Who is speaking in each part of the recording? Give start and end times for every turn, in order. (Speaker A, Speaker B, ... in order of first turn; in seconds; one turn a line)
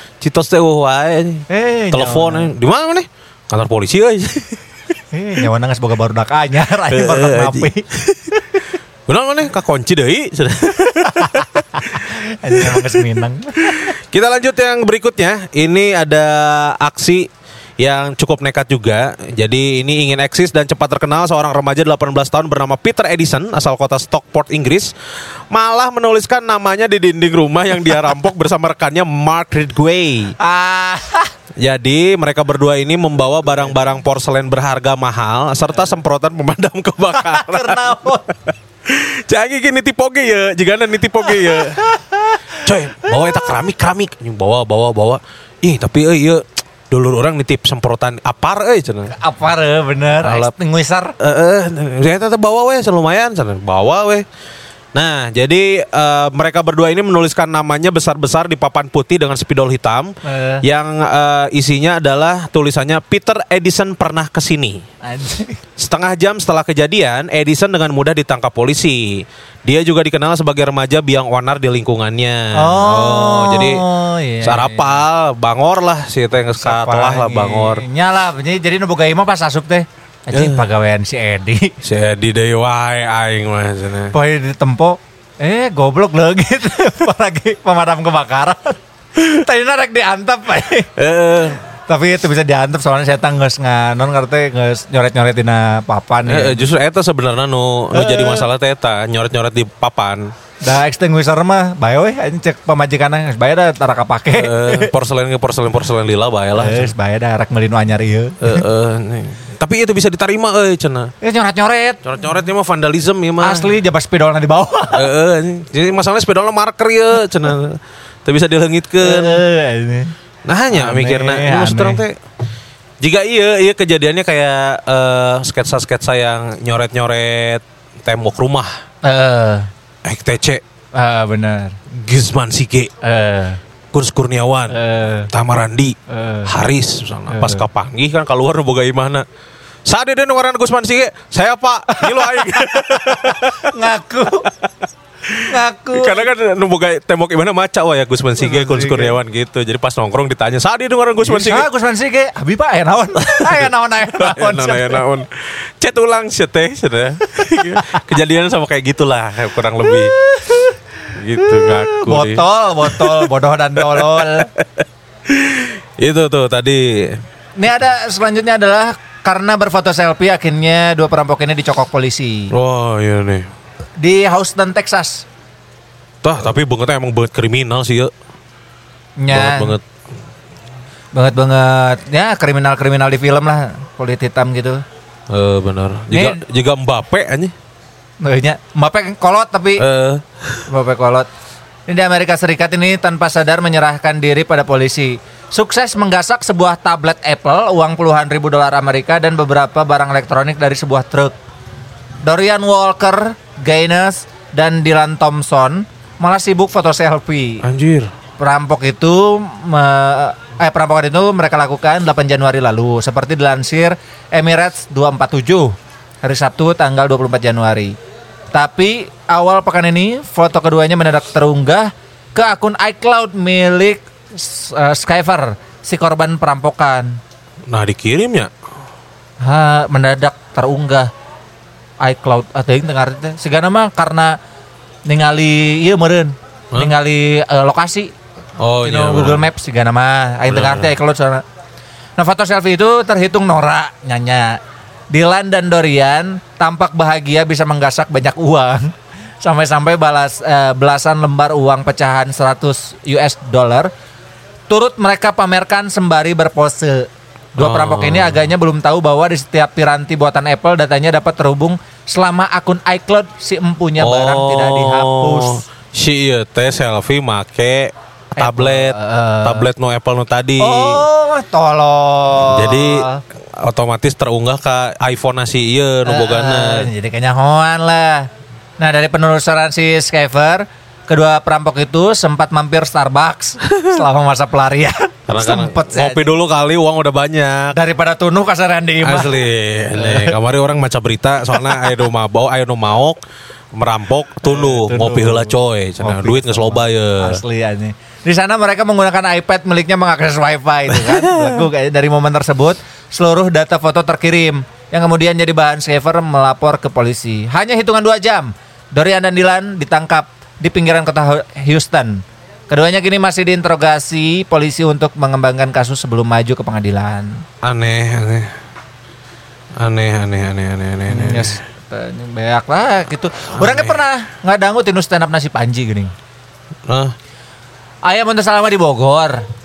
Speaker A: 0.2-4.6
Speaker B: 1.5-2.5
Speaker B: 5.1-7.8
Speaker A: 6.9-8.4
Speaker A: 9.1-13.0
Speaker B: 11.2-13.9
Speaker A: 13.6-17.3
Speaker A: 17.8-24.9
Speaker A: 25.5-30.4
Speaker B: 30.4-31.3
Speaker A: 31.6-41.8
Speaker B: 37.1-38.2
Speaker B: 41.3-43.5
Speaker A: 42.6-49.1
Speaker B: 49.1-51.1
Speaker A: 50.2-50.5
Speaker A: 51.2-54.2
Speaker A: 54.9-64.8
Speaker B: 60.2-60.6
Speaker B: 65.0-65.6
Speaker A: 65.8-73.8
Speaker B: 72.5-75.0
Speaker A: 74.4-77.8
Speaker B: 76.6-81.7
Speaker A: 80.3-80.6
Speaker A: 81.8-84.1
Speaker B: 84.1-90.9
Speaker A: 91.0-91.6
Speaker B: 91.9-96.6
Speaker A: 96.3-100.3
Speaker B: 97.9-98.5
Speaker B: 100.6-104.9
Speaker A: 104.3-106.9
Speaker B: 106.5-108.7
Speaker A: 108.4-111.1
Speaker B: 111.2-112.0
Speaker A: 112.0-113.7
Speaker B: 113.4-115.1
Speaker A: 114.9-119.4
Speaker B: 119.0-120.1
Speaker A: 120.5-122.2
Speaker B: 120.7-122.0
Speaker A: 123.0-128.7
Speaker B: 129.0-129.7
Speaker A: 130.1-130.6
Speaker B: 131.0-131.8
Speaker A: 131.9-132.9
Speaker B: 133.0-133.6
Speaker A: 133.9-134.8
Speaker B: 134.7-135.3
Speaker A: 135.3-139.3
Speaker B: 136.1-136.5
Speaker B: 137.3-137.7
Speaker A: 139.9-143.7
Speaker B: 141.9-144.5
Speaker A: 145.3-151.7
Speaker B: 145.5-146.3
Speaker B: 148.4-149.2
Speaker B: 151.2-155.0
Speaker A: 153.3-160.1
Speaker B: 157.4-158.0
Speaker B: 159.8-160.8
Speaker A: 161.1-167.2
Speaker B: 161.4-164.5
Speaker B: 167.6-172.5
Speaker A: 172.5-173.5
Speaker B: 174.0-175.2
Speaker A: 176.2-178.1
Speaker B: 179.2-179.8
Speaker A: 179.3-179.8
Speaker B: 181.1-184.8
Speaker A: 185.3-187.5
Speaker B: 186.1-186.4
Speaker B: 188.2-189.8
Speaker A: 189.8-190.7
Speaker B: 190.7-191.3
Speaker B: 191.9-201.3
Speaker B: 202.2-207.6
Speaker A: 207.6-208.1
Speaker B: 208.4-217.9
Speaker B: 218.5-227.2
Speaker A: 227.7-228.5
Speaker B: 229.4-231.1
Speaker B: 232.0-234.4
Speaker B: 235.1-238.1
Speaker A: 238.6-239.5
Speaker B: 238.8-241.4
Speaker A: 240.5-240.9
Speaker B: 242.2-244.6
Speaker B: 245.1-253.9
Speaker B: 254.7-265.6
Speaker A: 257.6-258.4
Speaker A: 264.0-271.0
Speaker B: 268.4-269.7
Speaker B: 270.6-273.2
Speaker A: 272.5-276.9
Speaker B: 276.1-278.3
Speaker B: 278.8-286.3
Speaker A: 285.3-287.8
Speaker B: 287.7-289.4
Speaker A: 289.0-293.2
Speaker B: 289.9-290.4
Speaker B: 291.5-292.0
Speaker A: 293.7-297.4
Speaker B: 294.4-317.4
Speaker A: 300.9-301.6
Speaker A: 317.6-318.5
Speaker A: 319.8-321.5
Speaker B: 321.1-326.1
Speaker A: 323.6-324.0
Speaker A: 326.9-327.1
Speaker B: 328.0-329.4